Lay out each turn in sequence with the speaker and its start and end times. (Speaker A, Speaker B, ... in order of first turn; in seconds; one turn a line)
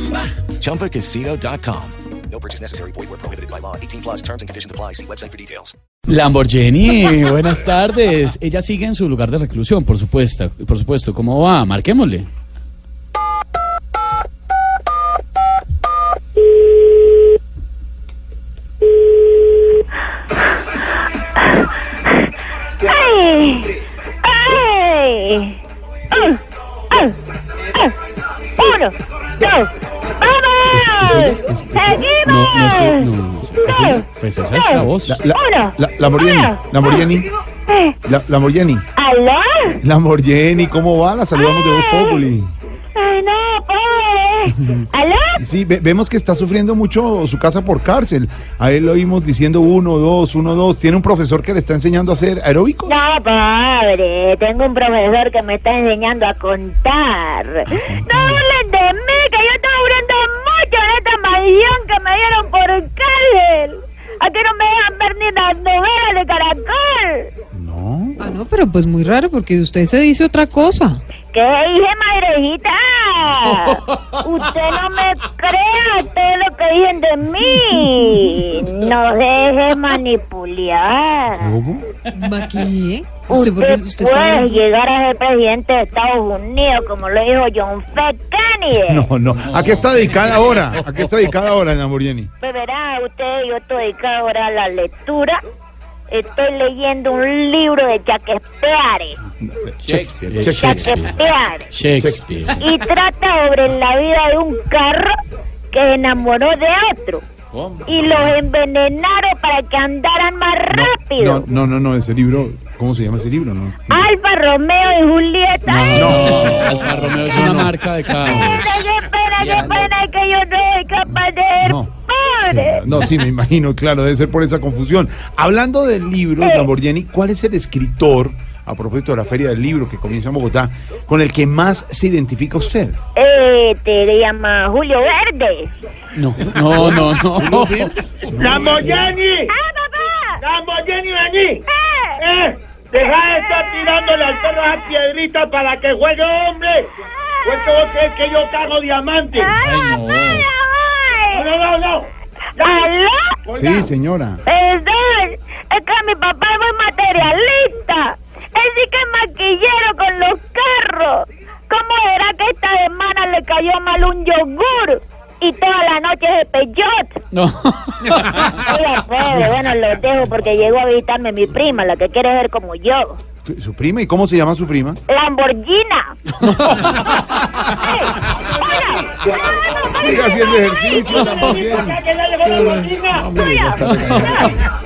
Speaker A: 0.4-5.7
Speaker B: 6.1-12.3
Speaker C: 22.8-25.6
Speaker C: 26.1-26.4
Speaker C: 26.9-27.1
Speaker C: 28.6-33.0
Speaker D: 30.7-32.1
Speaker B: 32.2-35.2
Speaker D: 33.5-34.0
Speaker C: 33.7-34.0
Speaker C: 34.6-36.6
Speaker D: 34.7-37.3
Speaker C: 37.7-38.0
Speaker D: 38.0-38.9
Speaker C: 39.0-39.8
Speaker D: 39.8-42.5
Speaker C: 41.3-42.2
Speaker C: 43.0-45.4
Speaker D: 44.5-53.0
Speaker C: 52.9-67.3
Speaker D: 57.7-58.1
Speaker D: 67.5-68.2
Speaker E: 68.2-71.0
Speaker C: 71.3-81.5
Speaker D: 81.3-81.8
Speaker E: 82.1-84.6
Speaker C: 83.3-89.1
Speaker D: 88.8-92.3
Speaker B: 89.4-91.1
Speaker C: 92.4-95.4
Speaker C: 96.1-99.2
Speaker D: 99.4-101.0
Speaker B: 99.8-102.7
Speaker C: 100.6-101.7
Speaker D: 102.0-102.5
Speaker C: 102.6-105.2
Speaker C: 105.7-107.2
Speaker D: 107.5-108.3
Speaker C: 107.8-111.4
Speaker D: 110.7-114.1
Speaker C: 113.9-116.7
Speaker B: 115.7-119.9
Speaker D: 115.9-118.6
Speaker C: 118.4-123.0
Speaker D: 121.0-133.0
Speaker C: 126.4-126.7
Speaker C: 133.2-135.7
Speaker B: 136.1-139.1
Speaker D: 136.4-139.1
Speaker F: 138.4-139.5
Speaker C: 139.5-140.4
Speaker F: 140.4-141.6
Speaker C: 141.7-142.2
Speaker F: 142.2-146.9
Speaker C: 143.1-144.8
Speaker C: 147.0-147.9
Speaker F: 147.4-149.5
Speaker C: 149.3-151.5
Speaker B: 149.6-150.5
Speaker F: 151.3-152.1
Speaker C: 152.6-153.4
Speaker F: 153.4-153.9
Speaker D: 153.6-154.4
Speaker C: 154.4-167.2
Speaker B: 167.3-168.6
Speaker C: 168.6-173.2
Speaker D: 173.4-175.0
Speaker C: 175.1-176.1
Speaker B: 176.4-177.7
Speaker D: 176.6-177.0
Speaker C: 177.8-179.1
Speaker D: 179.9-182.0
Speaker F: 181.1-183.3
Speaker B: 181.2-181.6
Speaker B: 182.4-182.9
Speaker D: 183.1-184.8
Speaker C: 183.4-184.6
Speaker B: 183.8-184.4